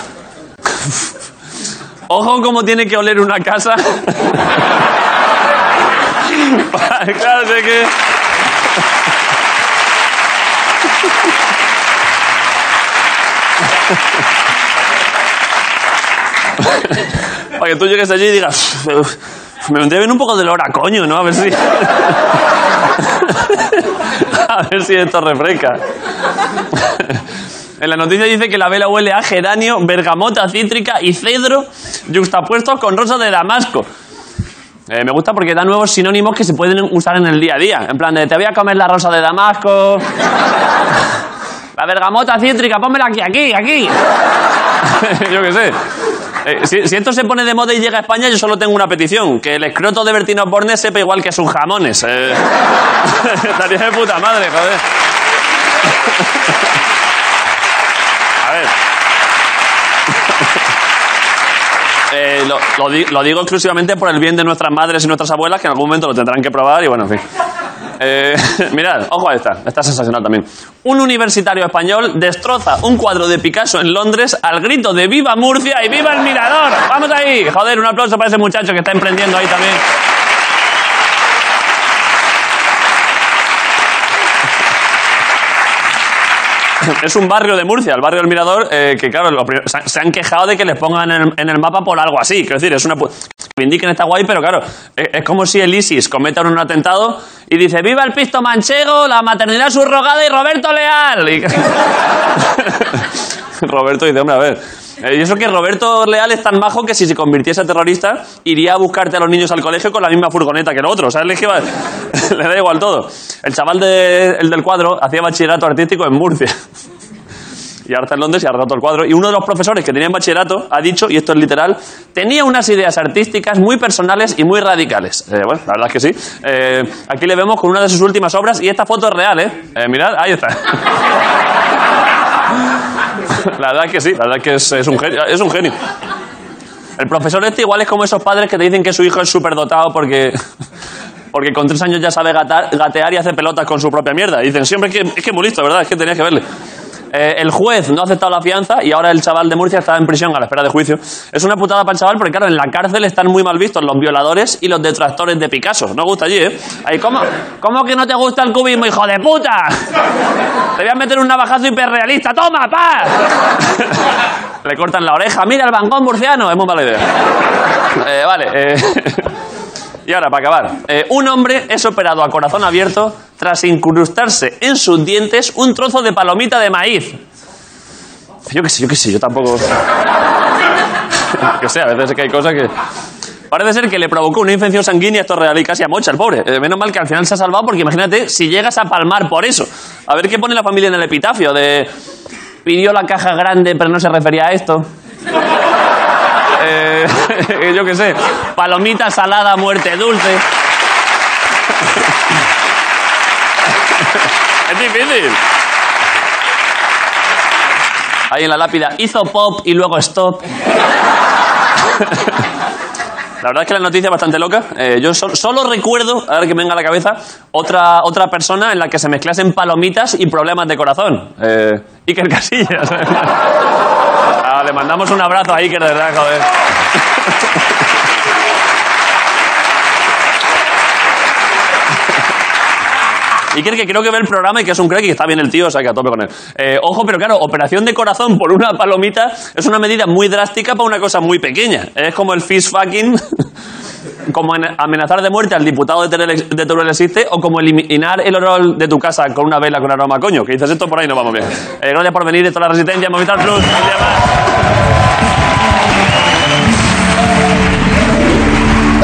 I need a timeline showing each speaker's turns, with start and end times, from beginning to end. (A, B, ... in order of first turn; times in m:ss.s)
0:02.1-0:04.6 A
0:06.3-0:07.9 A
0:16.7-0:17.0 A
0:17.6-0:22.4 A
0:23.0-0:25.8 A
0:26.7-0:27.2 A
0:27.8-0:33.9 A
0:34.9-0:40.0 A
0:41.8-0:44.0 A
0:44.8-0:45.8 A
0:46.4-0:52.5 A
0:53.0-0:54.8 A
0:58.4-0:58.7 A
1:02.1-1:07.2 A
1:08.0-1:19.8 A
1:26.8-1:41.8 A
1:42.4-1:43.0 A
1:43.6-1:56.5 A
1:57.9-2:10.8 A
2:13.4-2:15.7 A
2:17.0-2:20.4 A
2:21.3-2:26.4 A
2:27.1-2:39.8 A
2:40.8-2:43.2 A
2:43.7-2:44.0 A
2:44.6-2:47.0 A
2:48.0-2:49.3 A
2:50.1-2:57.2 A
2:58.5-2:59.7 A
3:01.4-3:02.7 A
3:03.5-3:11.9 A
3:12.6-3:14.8 A
3:16.6-3:20.4 A
3:24.7-3:25.4 A
3:28.3-3:30.4 A
3:31.9-3:32.4 A
3:33.4-3:43.5 A
3:44.4-3:46.5 A
3:47.2-3:47.5 A
3:53.5-4:03.2 A
4:04.3-4:14.2 A